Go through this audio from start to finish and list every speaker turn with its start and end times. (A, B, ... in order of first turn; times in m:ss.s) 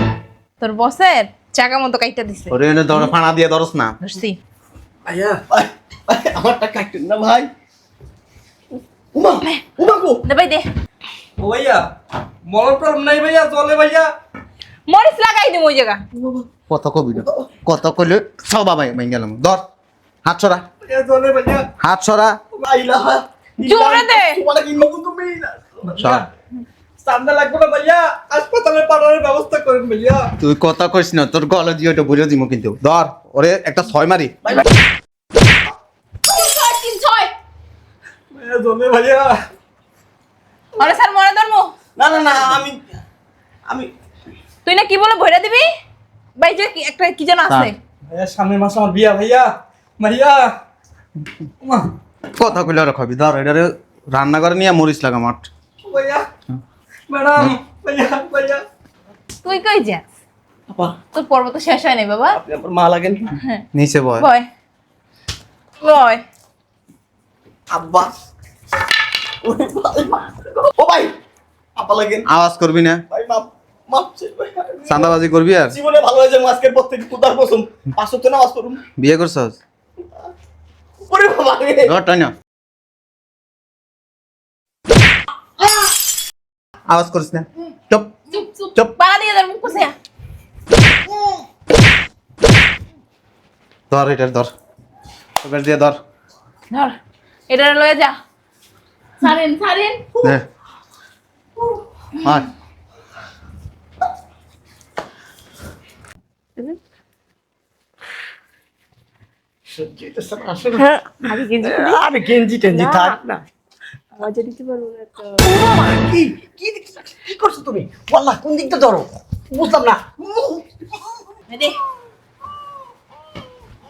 0:00.6-0:02.5 A
0:02.5-0:04.0 B
0:04.0-0:04.4 A
0:05.1-0:05.4 C
0:05.5-0:07.5 D
0:09.1-0:10.2 D
0:10.2-0:10.7 A
0:11.4-0:11.8 C
0:12.5-0:14.1 C
0:14.9-0:16.0 A
0:16.2-0:16.4 D
0:16.7-0:19.6 B
0:17.2-0:17.5 D
0:20.2-0:20.6 B
0:20.9-0:21.7 C
0:21.8-0:22.4 B
0:22.6-0:25.8 D
0:23.6-0:24.4 A
0:25.9-0:26.3 C
0:26.0-0:26.3 B
0:27.0-0:30.3 C
0:30.4-0:34.3 B
0:36.3-0:37.3 A
0:38.3-0:39.4 C
0:40.8-0:41.7 A
0:42.0-0:43.0 D
0:43.7-0:43.9 D
0:44.6-0:45.7 A
0:46.4-0:47.8 A
0:48.1-0:50.5 C
0:51.6-0:51.9 C
0:52.4-0:55.5 B
0:55.8-0:56.3 C
0:57.1-0:58.6 C
0:59.4-1:00.0 A
1:00.7-1:01.0 D
1:01.1-1:02.4 A
1:02.3-1:03.3 D
1:03.7-1:04.3 B
1:04.2-1:04.4 A
1:05.8-1:06.2 A
1:07.7-1:08.1 D
1:09.4-1:11.1 D
1:11.8-1:12.3 D
1:12.3-1:13.0 B
1:13.1-1:15.2 D
1:14.9-1:15.8 B
1:15.7-1:18.8 D
1:19.0-1:19.6 B
1:21.0-1:21.9 D
1:21.9-1:22.3 B
1:26.9-1:28.1 B
1:28.3-1:30.0 A
1:33.9-1:34.5 B
1:35.4-1:36.0 B
1:36.7-1:37.0 A
1:37.5-1:38.2 A
1:39.2-1:40.1 A
1:49.8-1:50.8 E
1:50.8-1:52.0 F
1:51.6-1:53.4 E
1:52.7-1:53.2 F
1:54.2-1:55.4 F
1:55.4-2:00.9 E
2:01.5-2:01.8 A